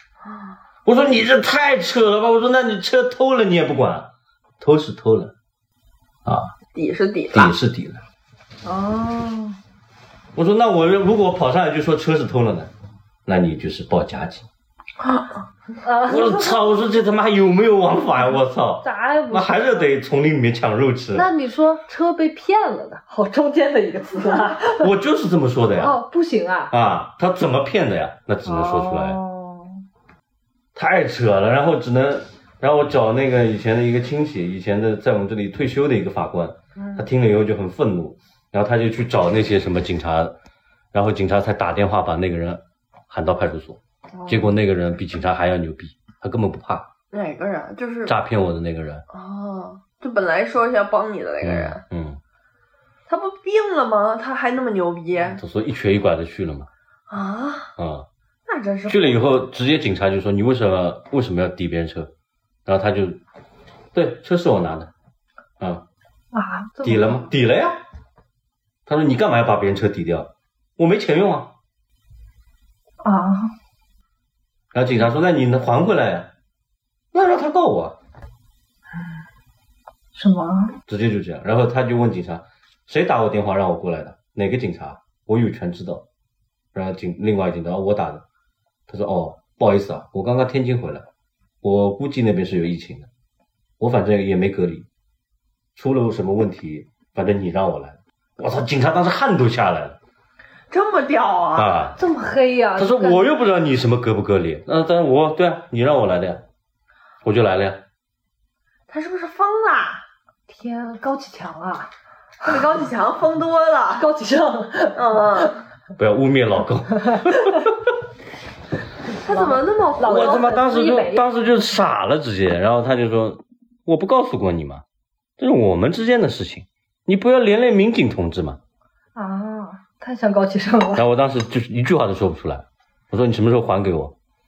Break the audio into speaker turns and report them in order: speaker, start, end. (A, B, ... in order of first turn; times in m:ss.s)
0:00.2-0:00.6 A
0:00.8-0:05.3 B
0:06.2-0:06.5 B
0:06.7-0:07.5 A
0:07.3-0:08.0 B
0:08.6-0:09.6 C
0:10.3-0:12.7 B
0:13.2-0:14.4 B
0:15.8-0:16.7 C
0:16.0-0:21.3 B
0:18.8-0:19.9 C
0:21.1-0:24.9 C
0:24.8-0:26.0 B
0:25.8-0:26.7 C
0:26.7-0:29.2 B
0:28.4-0:29.8 C
0:30.7-0:40.3 B
0:36.7-0:37.1 A
0:40.9-0:46.9 B
0:44.1-0:44.5 A
0:47.1-0:48.2 A
0:48.0-0:49.0 B
0:49.1-0:51.8 A
0:51.4-0:52.2 B
0:53.1-0:55.4 A
0:55.4-0:56.7 B
0:57.1-0:57.7 A
0:57.8-0:58.0 B
0:58.4-0:59.4 A
0:58.9-1:02.1 B
1:02.6-1:03.2 B
1:03.9-1:04.9 B
1:06.3-1:07.3 C
1:06.8-1:07.8 B
1:08.8-1:11.5 B
1:13.0-1:13.5 C
1:14.7-1:16.3 B
1:17.1-1:18.0 B
1:20.1-1:20.7 C
1:20.9-1:26.0 B
1:26.7-1:28.2 B
1:28.9-1:31.1 B
1:31.6-1:33.1 B
1:33.8-1:34.8 B
1:35.7-1:40.0 B
1:40.7-1:41.8 A
1:41.5-1:42.0 B
1:42.0-1:43.3 C
1:42.8-1:46.4 B
1:47.2-1:47.8 B
1:48.9-1:50.0 A
1:50.5-1:51.9 C
1:52.4-1:54.1 A
1:53.9-1:55.0 C
1:54.9-1:55.6 A
1:56.0-1:57.5 B
1:59.2-2:00.6 A
1:59.2-2:01.3 C
2:00.0-2:04.8 B
2:05.4-2:08.6 B
2:09.1-2:11.0 C
2:11.0-2:14.1 B